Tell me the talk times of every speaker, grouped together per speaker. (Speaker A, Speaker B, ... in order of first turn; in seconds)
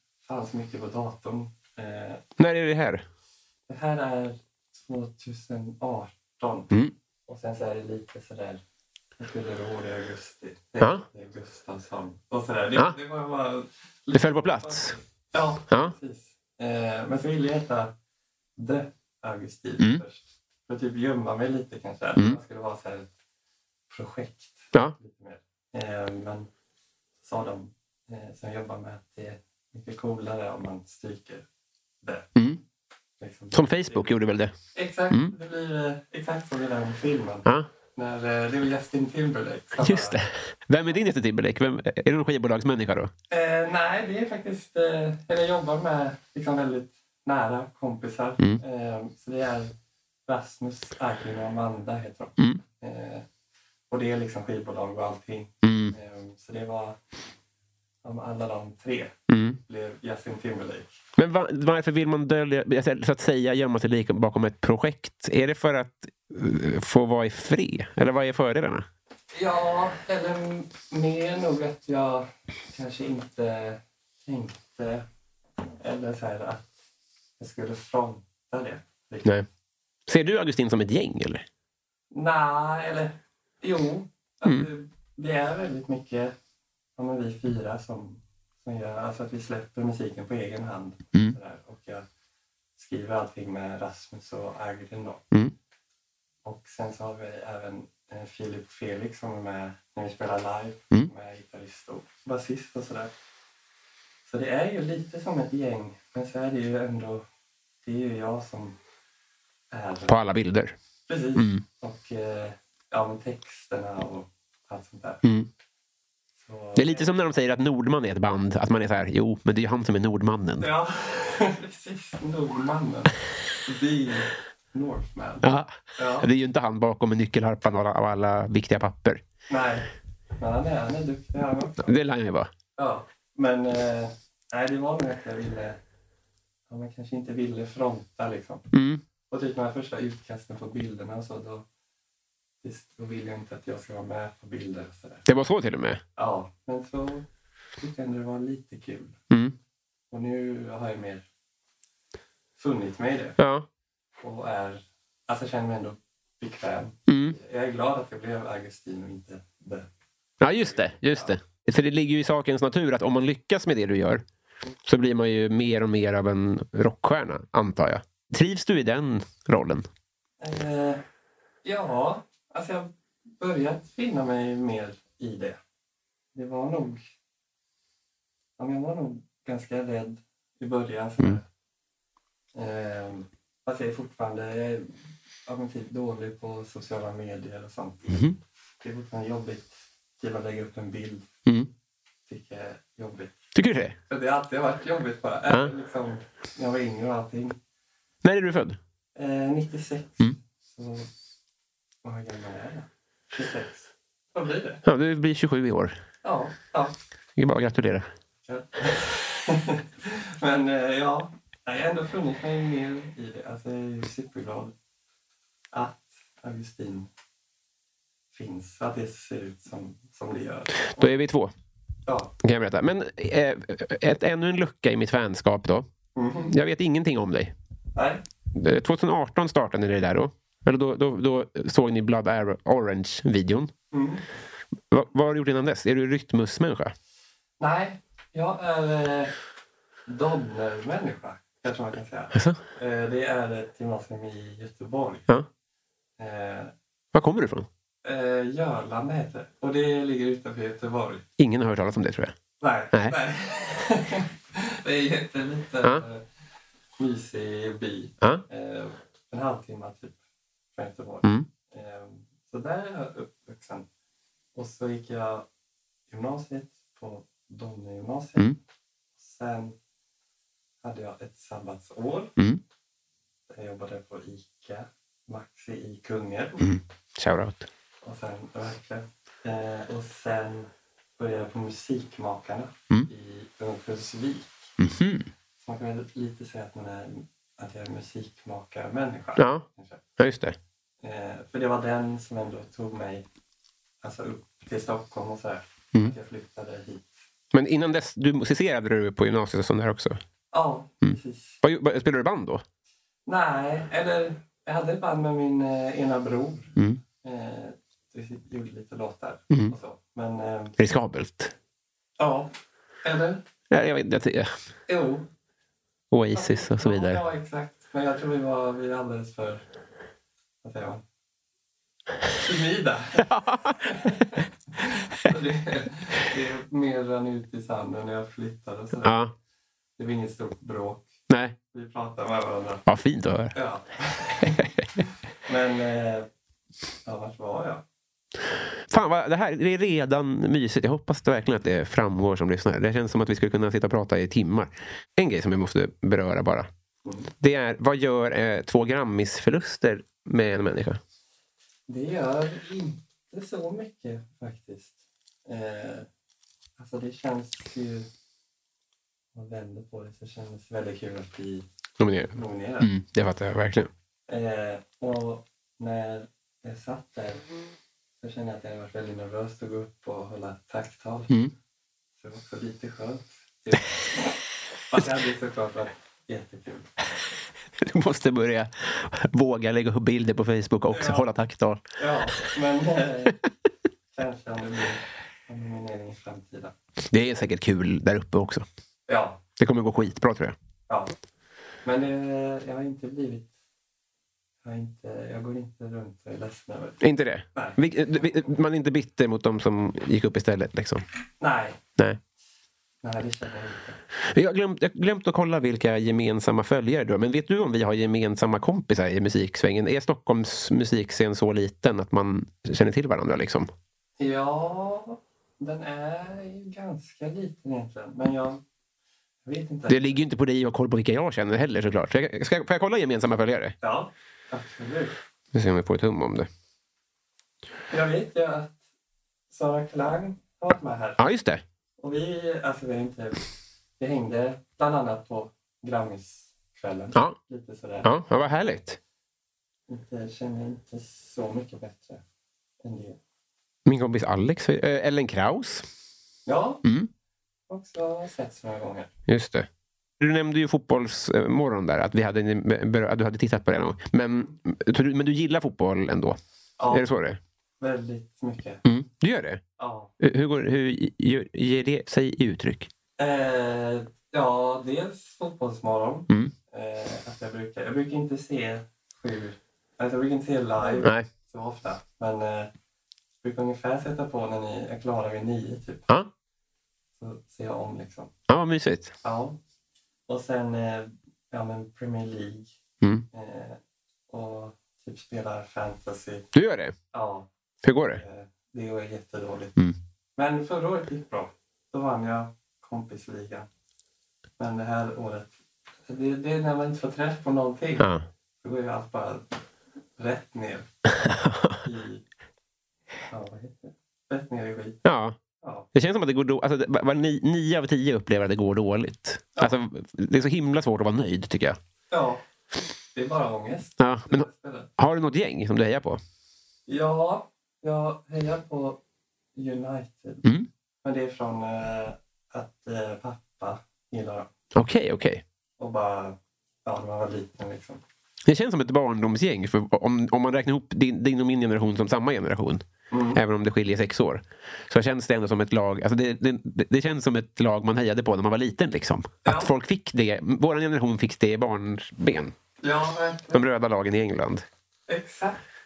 Speaker A: 0.2-2.2, 3.7-6.7, 7.3-8.6, 9.2-17.9, 18.6-23.1, 23.9-26.5, 27.2-31.4, 32.0-32.3, 33.2-34.1, 34.7-40.2, 43.3-49.7, 50.3-53.3, 53.9-57.0, 58.0-61.0, 69.3-75.0, 75.8-76.8, 77.4-79.4, 82.1-86.3, 87.0-92.0, 92.8-95.2, 96.4-103.1, 104.3-107.2, 107.8-108.8, 109.7-110.2, 111.1-115.2, 116.4-117.1, 120.6-126.3, 129.5-129.9, 130.4-131.9, 132.8-135.8, 136.7-138.7, 139.3-141.7, 142.6-145.3, 146.2-147.3, 147.8-149.2, 150.1-151.2, 152.6-153.4, 154.2-159.9, 160.5-161.3, 170.4-171.0, 171.6-175.6, 176.3-177.1, 178.6-181.4, 182.5-191.3, 192.3-193.3, 194.1-197.6, 199.2-201.1, 202.0-204.8, 206.2-206.9, 208.4-214.7, 215.7-217.1, 218.3-221.1, 222.1-222.3, 226.2-226.5, 227.9-228.2, 233.9-234.2, 237.6-239.3, 240.1-245.3, 246.2-246.7, 248.0-251.2, 252.6-256.2, 257.0-260.2, 260.7-263.9, 264.6-265.4, 266.1-268.6, 269.2-269.8, 270.8-272.3, 273.5-276.7, 278.0-284.7, 285.6-290.0, 291.0-293.3, 294.0-297.2, 300.5-301.6, 303.3-310.8, 312.2-312.5, 313.0-313.4, 314.9-315.3, 316.3-319.6, 320.6-321.0, 322.4-329.2, 330.0-331.1, 331.7-332.8, 333.5-336.3, 337.1-337.8, 347.1-347.3, 351.9-356.1, 356.8-358.1, 359.3-361.7, 362.2-362.9, 364.3-367.4, 368.2-371.3, 372.2-374.4, 374.9-376.9, 380.9-381.3, 382.0-383.4, 384.1-386.7, 389.1-389.4, 390.9-391.1, 391.8-393.5, 394.6-397.0, 397.5-398.5, 401.4-401.8, 403.0-404.0, 414.2-418.6, 419.4-420.2, 423.8-425.2, 427.9-428.8, 429.5-431.2, 432.0-433.4, 434.0-438.1, 439.9-442.2, 442.8-443.2, 446.4-446.8, 447.7-449.1, 456.8-457.1, 457.8-458.8, 459.8-460.1, 463.2-472.7, 473.4-476.1, 477.2-478.3, 479.2-479.6, 480.3-482.7, 483.3-486.4, 487.1-487.5, 488.2-489.8, 490.4-493.7, 494.6-499.6, 500.2-500.9, 501.8-502.2, 503.3-505.0, 505.6-505.9, 512.1-512.4, 513.1-514.9, 516.9-519.0, 519.5-520.5, 521.0-524.5, 525.8-528.0, 533.1-533.4, 539.4-539.7, 542.8-543.6, 545.1-545.6
Speaker B: 2.4-3.0, 14.1-14.9, 15.7-15.9, 33.5-34.5, 39.8-43.1, 55.6-55.9, 59.3-59.6, 61.2-68.9, 80.1-81.5, 110.1-110.8, 111.3-111.6, 115.2-115.5, 116.8-120.7, 125.4-129.2, 131.8-132.5, 138.7-139.0, 145.3-146.0, 149.3-149.6, 153.4-153.7, 157.1-157.4, 160.4-164.2, 164.8-169.9, 188.1-188.4, 193.6-193.9, 198.2-198.8, 204.8-205.9, 207.3-208.1, 220.9-221.5, 222.4-225.9, 226.5-227.6, 228.5-233.7, 234.9-236.9, 242.3-242.6, 247.1-247.7, 251.4-252.3, 276.6-277.7, 284.8-285.3, 289.4-289.6, 290.2-290.6, 297.5-300.2, 301.1-302.6, 309.5-309.8, 310.8-311.5, 313.7-314.5, 316.1-317.2, 323.2-323.9, 329.0-329.3, 331.3-331.6, 332.9-333.6, 338.9-346.7, 347.4-351.0, 362.0-363.9, 377.8-382.4, 387.1-388.7, 389.6-390.6, 397.0-401.0, 404.2-413.7, 419.9-423.8, 425.5-426.5, 431.2-431.6, 438.0-439.0, 443.9-445.9, 446.8-447.1, 449.3-449.7, 450.2-456.4, 456.9-457.4, 458.8-459.6, 460.2-462.9, 471.0-471.3, 478.5-479.1, 486.5-486.9, 487.8-488.2, 498.0-498.2, 501.2-501.8, 505.1-505.4, 505.9-511.8, 514.0-516.2, 524.8-525.4, 528.5-542.5, 543.5-544.6